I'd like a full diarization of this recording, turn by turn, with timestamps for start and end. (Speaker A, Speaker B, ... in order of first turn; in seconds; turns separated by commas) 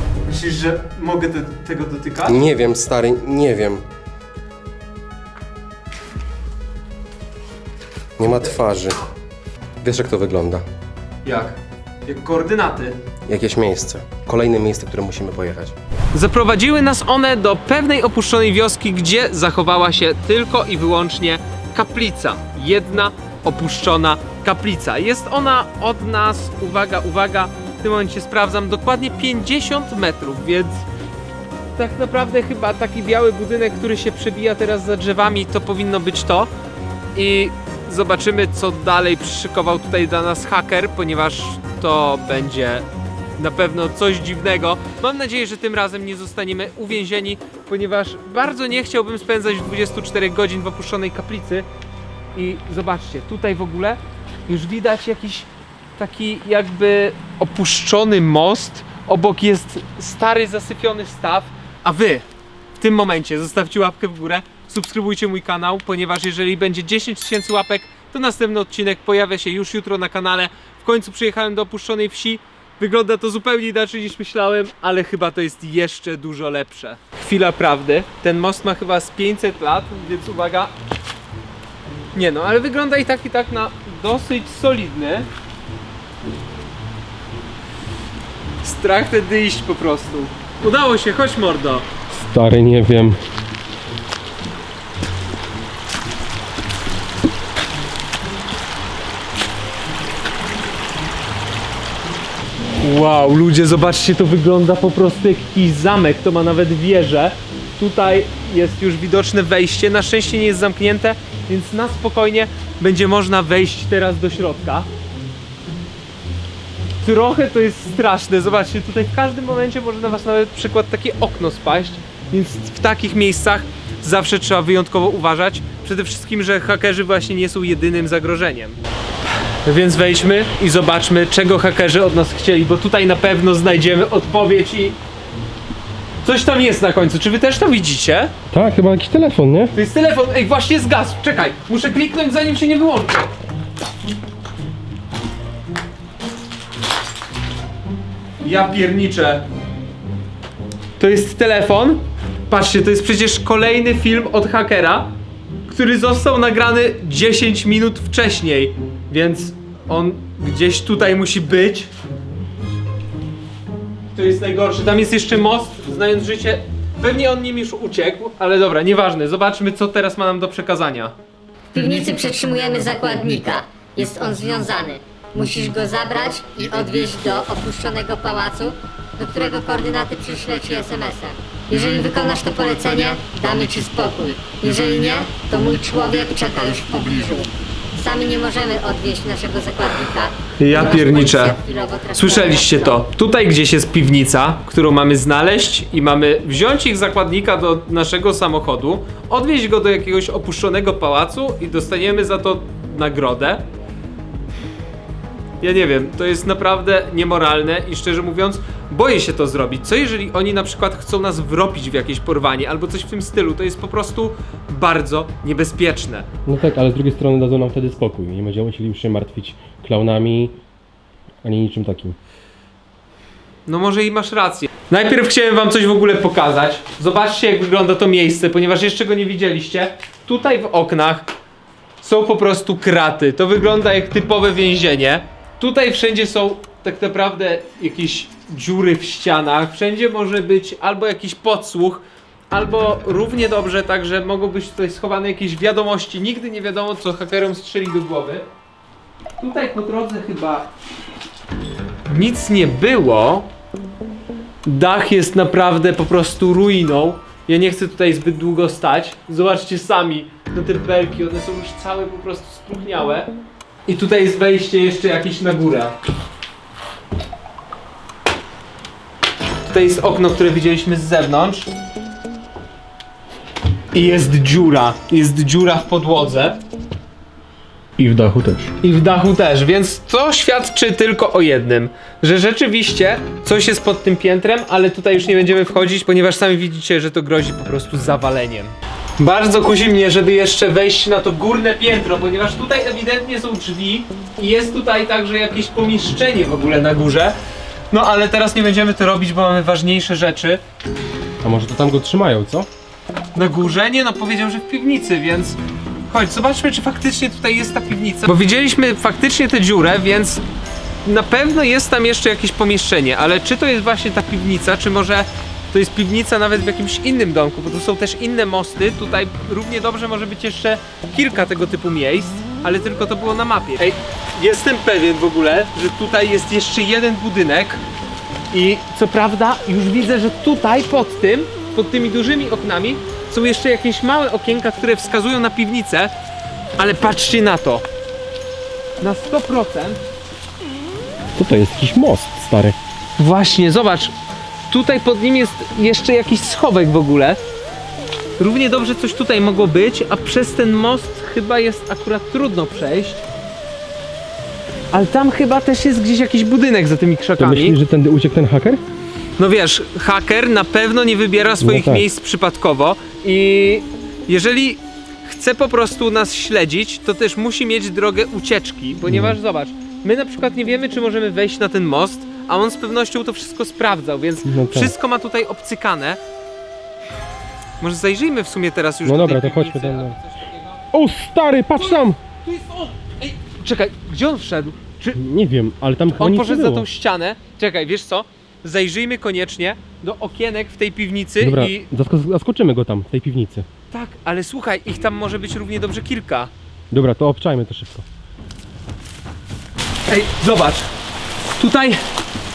Speaker A: 0.3-2.5, Speaker B: 2.3-3.8, Speaker B: 8.2-9.0, Speaker B: 9.8-10.6, Speaker A: 11.2-13.0, Speaker B: 13.3-15.7, Speaker A: 16.1-30.8, Speaker A: 31.8-36.5, Speaker A: 37.1-42.9, Speaker A: 43.4-51.7, Speaker A: 52.4-62.2, Speaker A: 62.8-80.7, Speaker A: 82.1-85.3, Speaker A: 88.6-91.9, Speaker C: 92.1-93.2, Speaker A: 102.8-114.9, Speaker A: 117.0-128.8, Speaker A: 129.7-135.0, Speaker A: 136.2-138.3, Speaker C: 138.5-139.7, Speaker A: 139.7-143.3, Speaker A: 148.4-149.4, Speaker A: 151.0-155.1, Speaker A: 155.7-161.9, Speaker A: 164.1-171.2, Speaker D: 171.7-193.0, Speaker A: 190.6-191.6, Speaker A: 192.1-203.6, Speaker A: 205.6-216.3, Speaker C: 216.5-220.6, Speaker C: 221.4-222.2, Speaker A: 223.7-231.3, Speaker A: 232.0-248.4, Speaker A: 249.4-250.7, Speaker A: 252.1-253.5, Speaker A: 254.7-263.3, Speaker A: 263.9-265.9, Speaker A: 269.7-271.7, Speaker A: 273.9-276.6, Speaker A: 278.0-297.4, Speaker A: 297.9-300.6, Speaker C: 301.4-302.7, Speaker A: 303.4-310.4, Speaker A: 311.1-327.8, Speaker A: 328.5-336.1, Speaker A: 336.8-337.8, Speaker A: 339.0-340.0, Speaker C: 341.4-342.8, Speaker A: 343.2-344.1, Speaker A: 344.7-347.4, Speaker A: 348.4-353.2, Speaker A: 354.9-357.8, Speaker C: 357.4-358.8, Speaker A: 359.4-376.2, Speaker C: 361.6-362.1, Speaker C: 369.1-369.4, Speaker C: 374.4-374.9, Speaker A: 377.8-380.8, Speaker C: 379.1-380.2, Speaker C: 380.9-382.2, Speaker A: 381.8-385.2, Speaker C: 385.1-386.9, Speaker A: 386.2-391.9, Speaker C: 391.4-393.7, Speaker A: 393.9-396.5, Speaker C: 396.9-398.1, Speaker A: 400.1-400.9, Speaker A: 401.6-402.0